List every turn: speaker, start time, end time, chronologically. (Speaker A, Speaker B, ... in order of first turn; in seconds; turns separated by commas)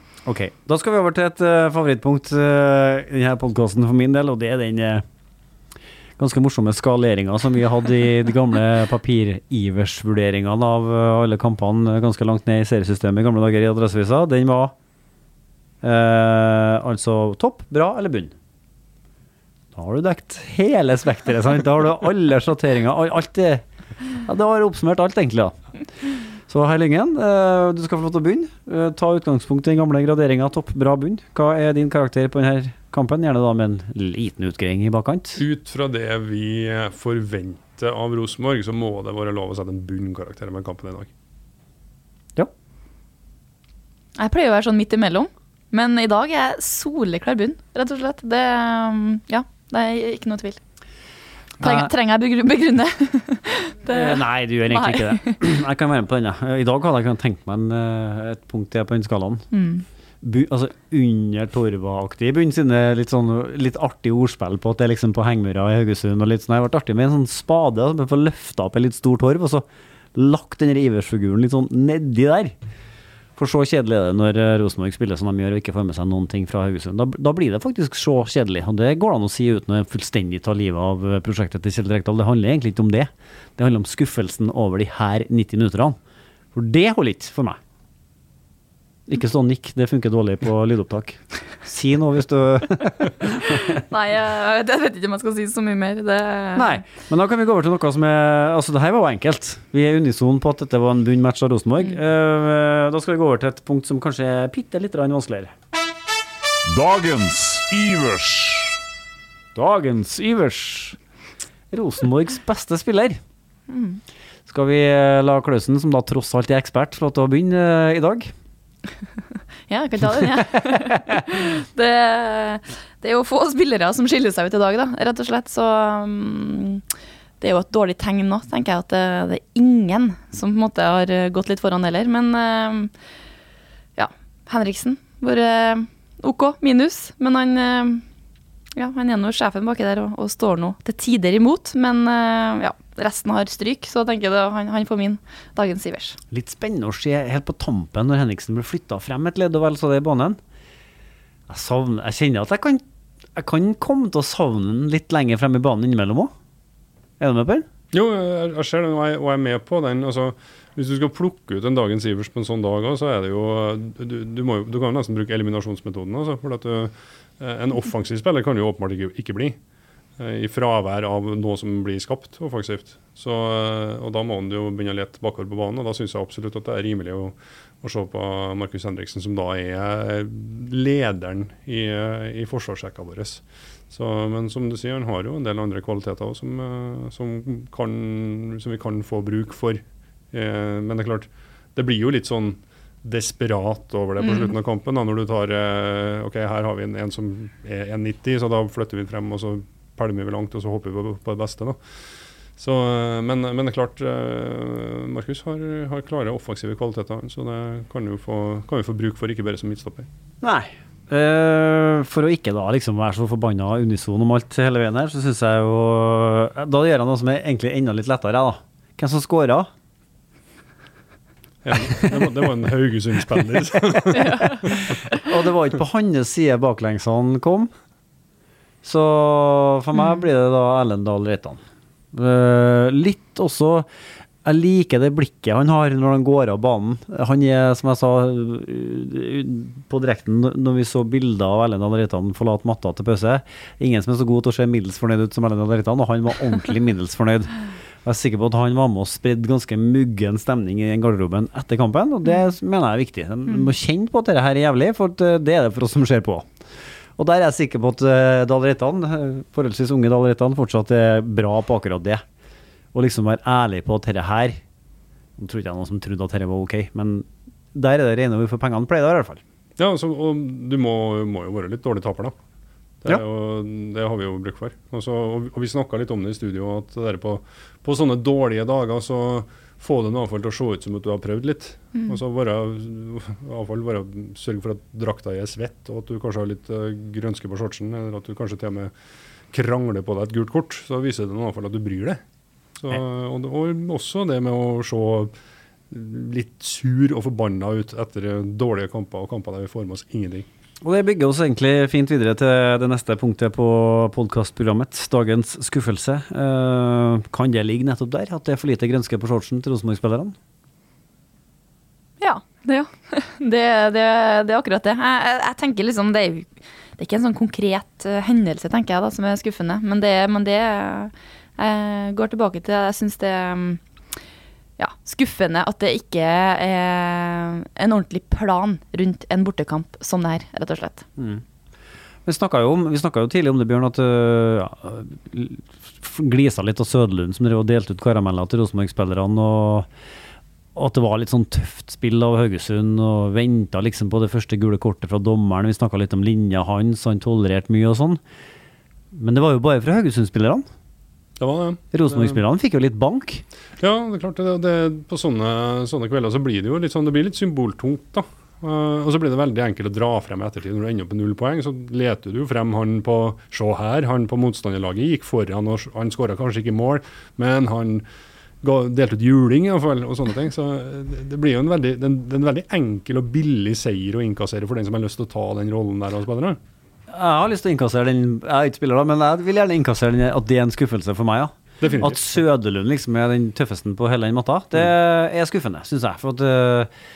Speaker A: 0.2-5.0, Speaker A: 6.2-14.7, Speaker A: 15.8-18.3, Speaker A: 19.7-23.6, Speaker A: 24.1-25.6, Speaker A: 26.5-35.4, Speaker B: 35.4-41.1, Speaker C: 44.2-50.6, Speaker A: 51.6-51.9, Speaker C: 51.6-55.4, Speaker A: 53.9-59.5, Speaker C: 59.5-59.8, Speaker A: 60.2-72.5, Speaker A: 73.3-86.0, Speaker A: 86.5-87.6, Speaker A: 89.1-93.8, Speaker C: 93.5-96.8, Speaker A: 96.5-105.5, Speaker D: 106.7-108.8, Speaker A: 109.5-111.0, Speaker A: 111.7-113.2, Speaker C: 113.7-114.0, Speaker A: 114.5-118.3, Speaker C: 119.7-126.8, Speaker C: 127.4-132.9, Speaker C: 134.0-138.0, Speaker C: 138.8-146.2, Speaker A: 146.3-150.4, Speaker A: 151.5-152.8, Speaker A: 153.3-156.3, Speaker A: 157.2-157.7, Speaker B: 157.9-169.6, Speaker B: 170.2-201.8, Speaker C: 194.2-194.5, Speaker B: 202.6-210.1, Speaker A: 210.4-219.7, Speaker B: 221.6-224.7, Speaker A: 224.6-227.7, Speaker A: 228.8-231.6, Speaker A: 232.1-233.9, Speaker A: 234.4-256.5, Speaker A: 257.2-262.2, Speaker A: 262.9-264.6, Speaker A: 265.4-269.4, Speaker B: 269.8-272.3, Speaker B: 273.0-288.9, Speaker B: 289.5-292.2, Speaker B: 292.8-295.3, Speaker B: 295.9-300.4, Speaker A: 300.8-310.3, Speaker C: 312.2-323.8, Speaker C: 324.8-331.1, Speaker A: 331.2-331.4, Speaker A: 332.2-339.9, Speaker A: 340.7-348.2, Speaker A: 349.1-350.6, Speaker B: 351.4-352.4, Speaker A: 351.9-353.4, Speaker B: 353.8-368.0, Speaker B: 368.6-376.6, Speaker A: 377.1-386.9, Speaker B: 381.8-382.3